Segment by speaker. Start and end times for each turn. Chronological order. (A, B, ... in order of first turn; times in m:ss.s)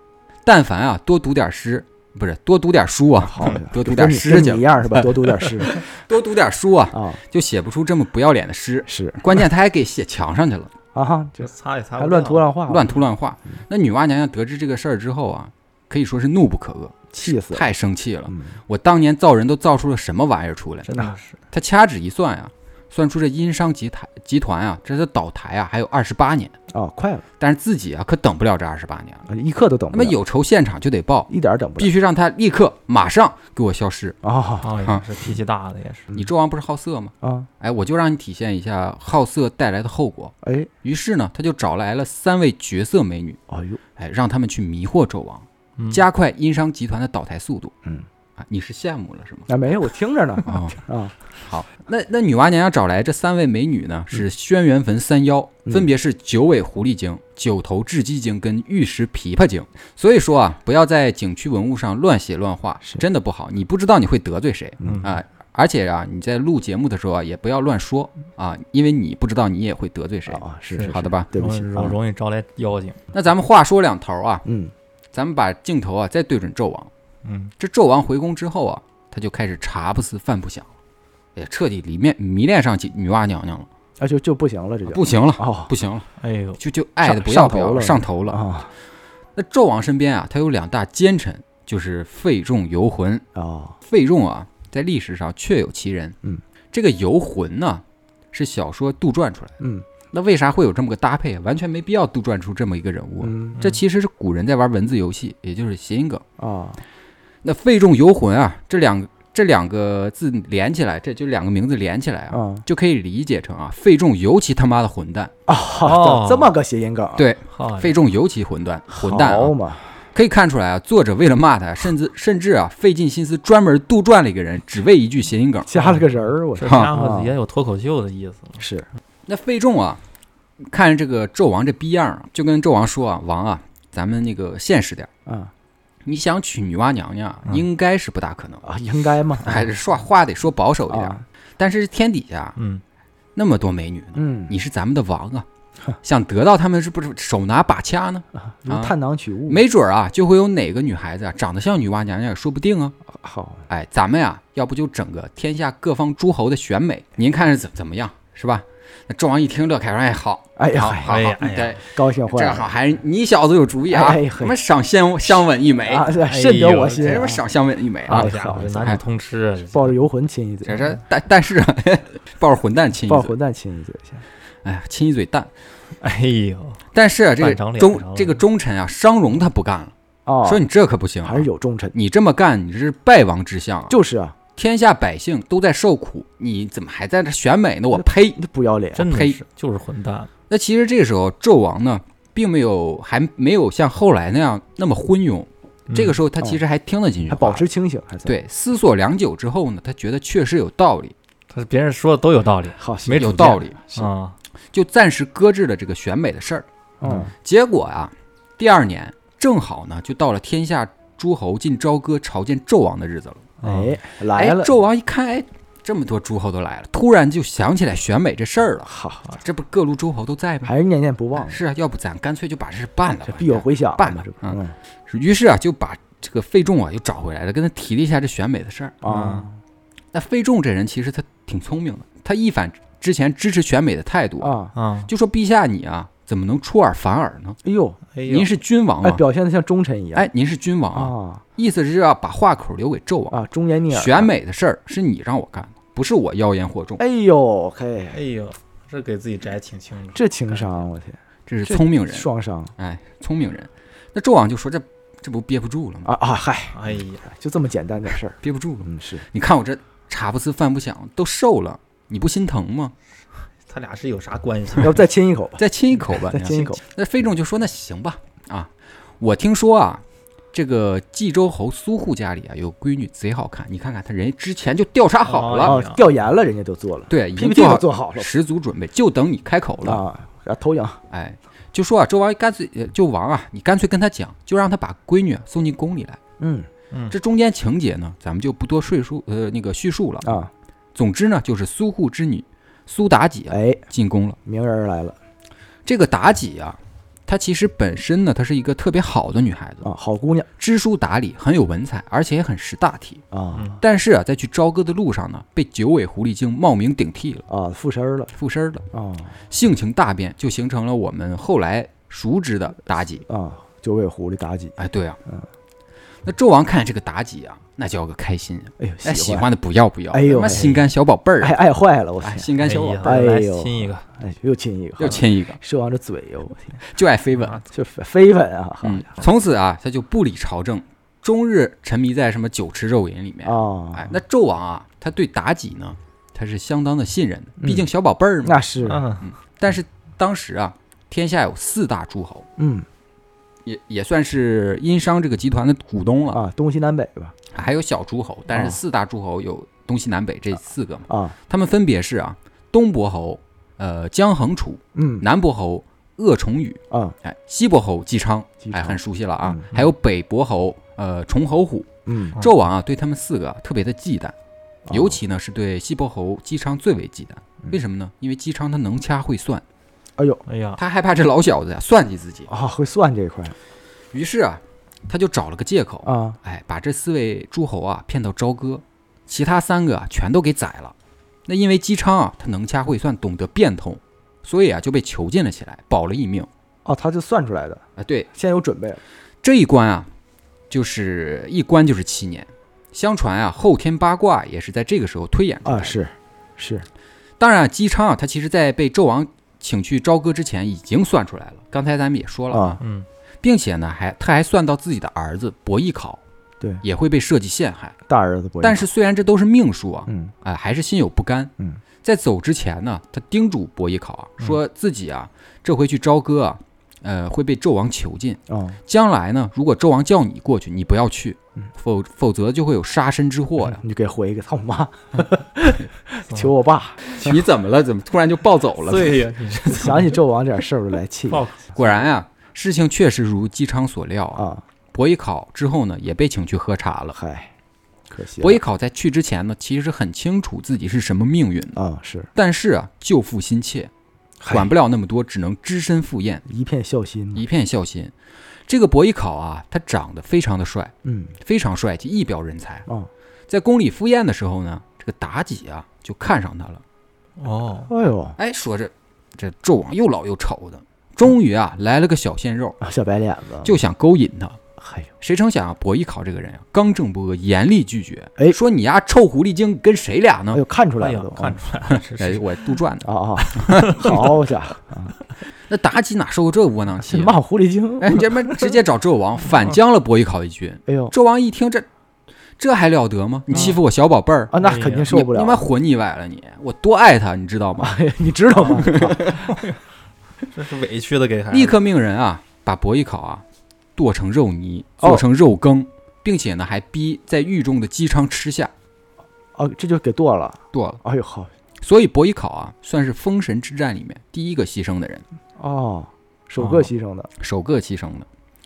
0:00.4-0:05.0 A
0:03.2-0:05.8 B
0:05.6-0:10.7 A
0:06.9-0:07.2 B
0:08.9-0:09.2 B
0:10.9-0:12.9 B
0:11.4-0:12.5 C
0:12.7-0:20.9 A
0:17.1-0:17.6 B
0:18.3-0:18.6 B
0:20.8-0:21.4 C
0:21.5-0:26.5 A
0:26.7-0:27.2 B
0:27.4-0:29.2 A
0:29.3-0:30.2 B
0:29.9-0:34.2 A
0:31.3-0:31.9 B
0:34.2-0:34.7 B
0:34.6-0:36.1 C
0:34.8-0:35.0 A
0:36.1-0:43.4 A
0:37.2-0:37.5 B
0:40.4-0:40.7 B
0:43.5-0:43.8 B
0:44.0-0:47.7 A
0:45.8-0:46.0 C
0:48.4-0:49.5 A
0:49.5-0:51.1 B
0:50.4-0:50.8 A
0:51.3-1:11.3 A
1:04.8-1:05.0 B
1:04.8-1:05.1 C
1:10.2-1:12.0 B
1:10.7-1:13.0 C
1:13.1-1:14.4 A
1:14.4-1:14.7 B
1:15.1-1:16.9 A
1:17.2-1:17.5 C
1:17.6-1:20.7 A
1:21.3-1:23.7 A
1:24.0-1:25.7 B
1:24.9-1:26.1 A
1:26.2-1:26.6 C
1:26.6-1:28.4 A
1:27.0-1:28.7 B
1:29.3-1:33.2 A
1:33.3-1:33.8 B
1:33.8-1:36.2 A
1:36.7-1:39.6 A
1:39.6-1:39.8 B
1:40.1-1:46.2 A
1:43.2-1:43.6 B
1:46.4-1:46.8 B
1:47.4-1:55.3 A
1:52.3-1:52.6 B
1:55.5-1:57.2 B
1:55.8-1:56.5 C
1:57.2-1:59.5 A
1:57.5-1:58.0 C
1:58.9-2:00.0 B
2:00.1-2:05.7 A
2:05.7-2:07.3 B
2:05.7-2:08.6 C
2:06.6-2:06.9 A
2:08.6-2:08.9 B
2:09.3-2:10.0 A
2:10.6-2:15.1 A
2:15.2-2:15.5 B
2:16.0-2:18.6 A
2:18.6-2:19.7 B
2:19.4-2:22.6 A
2:20.9-2:21.2 B
2:22.6-2:22.8 C
2:23.3-2:25.4 A
2:24.2-2:24.5 B
2:26.0-2:29.0 A
2:28.5-2:29.6 B
2:29.5-2:33.0 A
2:33.1-2:33.6 B
2:33.7-2:46.1 A
2:40.6-2:41.2 B
2:41.0-2:41.8 C
2:41.8-2:42.7 B
2:43.9-2:44.6 B
2:45.8-2:47.4 B
2:46.3-2:47.2 C
2:47.0-2:49.0 A
2:48.1-2:49.9 C
2:48.1-2:48.8 B
2:49.7-2:50.9 B
2:50.6-2:53.3 A
2:53.1-2:54.2 B
2:54.6-2:55.5 A
2:56.0-2:56.8 C
2:56.9-3:03.9 A
2:57.4-2:58.4 C
3:00.2-3:00.6 B
3:01.2-3:01.9 B
3:03.9-3:04.4 B
3:04.6-3:08.4 A
3:07.9-3:09.0 B
3:09.0-3:10.3 C
3:09.1-3:09.4 A
3:10.5-3:17.6 A
3:15.9-3:16.2 C
3:17.3-3:18.4 B
3:18.2-3:21.1 A
3:21.5-3:24.4 C
3:22.8-3:24.0 B
3:23.2-3:23.9 A
3:24.7-3:26.6 A
3:27.0-3:27.3 B
3:27.3-3:33.5 A
3:33.6-3:34.7 B
3:33.6-3:34.0 C
3:34.3-3:40.7 A
3:38.8-3:39.2 B
3:40.6-3:41.6 B
3:41.3-3:49.0 A
3:43.2-3:44.7 B
3:49.0-3:49.6 B
3:49.0-3:49.4 C
3:50.1-3:57.6 A
3:54.4-3:54.7 B
3:54.7-3:55.1 C
3:57.6-3:58.0 B
3:58.1-3:58.5 C
3:58.2-3:59.2 A
3:59.0-4:00.3 B
4:00.1-4:07.0 A
4:00.9-4:01.4 B
4:03.3-4:04.3 B
4:07.0-4:08.2 B
4:08.1-4:10.7 C
4:10.1-4:12.7 B
4:11.5-4:16.1 A
4:16.0-4:19.2 B
4:16.7-4:17.2 C
4:18.4-4:22.9 A
4:23.7-4:25.0 C
4:24.8-4:25.6 B
4:25.6-4:35.8 A
4:26.1-4:26.8 B
4:35.2-4:36.0 C
4:35.6-4:38.3 B
4:37.1-4:40.0 A
4:39.8-4:41.0 B
4:41.1-4:46.2 A
4:46.4-4:46.7 B
4:47.1-4:50.3 A
4:50.2-4:50.5 B
4:50.9-4:54.4 A
4:53.5-4:53.8 B
4:54.4-4:55.2 B
4:55.8-4:59.8 A
4:59.8-5:00.5 B
5:00.6-5:03.2 A
5:03.3-5:03.8 B
5:03.8-5:07.4 A
5:07.5-5:08.3 B
5:08.4-5:08.8 A
5:08.9-5:09.4 B
5:09.5-5:13.2 A
5:13.2-5:15.5 B
5:14.8-5:15.2 A
5:16.2-5:21.6 A
5:18.8-5:19.5 B
5:20.1-5:20.8 B
5:21.4-5:22.5 B
5:22.2-5:23.1 A
5:22.6-5:24.0 C
5:23.0-5:26.8 B
5:25.0-5:25.6 A
5:26.8-5:27.6 A
5:27.7-5:29.1 B
5:28.8-5:38.6 A
5:33.4-5:34.1 B
5:37.6-5:37.9 B
5:38.4-5:39.1 B
5:38.8-5:39.2 C
5:39.2-5:42.5 A
5:42.6-5:42.9 B
5:43.6-5:46.4 A
5:46.3-5:47.3 B
5:47.5-6:04.3 A
5:48.5-5:48.8 B
5:51.1-5:51.4 B
5:54.9-5:55.2 B
5:58.6-5:59.7 B
6:02.0-6:02.4 B
6:04.9-6:05.2 B
6:04.9-6:09.6 A
6:10.2-6:10.4 B
6:10.5-6:10.8 C
6:10.8-6:12.5 A
6:12.5-6:13.6 B
6:14.1-6:20.9 A
6:16.0-6:16.4 B
6:21.4-6:26.5 A
6:26.8-6:29.0 B
6:28.0-6:28.3 A
6:29.4-6:30.1 A
6:30.7-6:36.0 A
6:35.6-6:36.8 B
6:37.4-6:42.8 A
6:42.5-6:42.8 B
6:42.8-6:43.0 C
6:43.4-6:46.2 A
6:46.8-6:47.9 A
6:48.1-6:48.8 B
6:48.6-6:51.5 A
6:50.1-6:50.3 B
6:52.0-7:03.8 A
6:58.5-6:58.8 B
7:03.7-7:07.4 B
7:07.1-7:09.2 A
7:08.8-7:10.2 C
7:09.7-7:11.4 B
7:11.3-7:11.9 C
7:11.7-7:17.2 A
7:14.3-7:14.6 B
7:17.1-7:17.5 B
7:18.1-7:18.6 B
7:18.4-7:21.8 A
7:21.8-7:22.3 B
7:22.4-7:23.9 A
7:24.4-7:24.7 B
7:24.5-7:26.4 A
7:26.4-7:27.4 B
7:27.3-7:28.1 A
7:28.7-7:32.8 A
7:31.0-7:31.3 B
7:33.5-7:36.8 A
7:37.4-7:37.9 C
7:37.9-7:38.4 B
7:38.4-7:42.8 A
7:42.8-7:43.8 B
7:43.6-7:44.6 A
7:44.8-7:45.1 B
7:45.2-7:50.6 A
7:50.5-7:51.6 B
7:51.0-7:52.5 C
7:51.9-7:54.1 A
7:53.0-7:55.2 B
7:55.7-7:57.4 A
7:57.0-7:58.6 B
7:58.0-8:01.9 A
8:00.9-8:01.1 B
8:02.6-8:04.6 A
8:03.5-8:03.8 C
8:04.5-8:05.6 B
8:04.6-8:05.1 C
8:05.1-8:08.0 A
8:07.8-8:09.6 B
8:08.5-8:09.4 A
8:09.5-8:09.8 C
8:10.5-8:11.8 C
8:11.5-8:13.4 A
8:14.0-8:18.7 A
8:19.5-8:21.5 B
8:20.7-8:21.0 A
8:21.8-8:25.2 A
8:25.6-8:27.3 B
8:26.6-8:28.3 A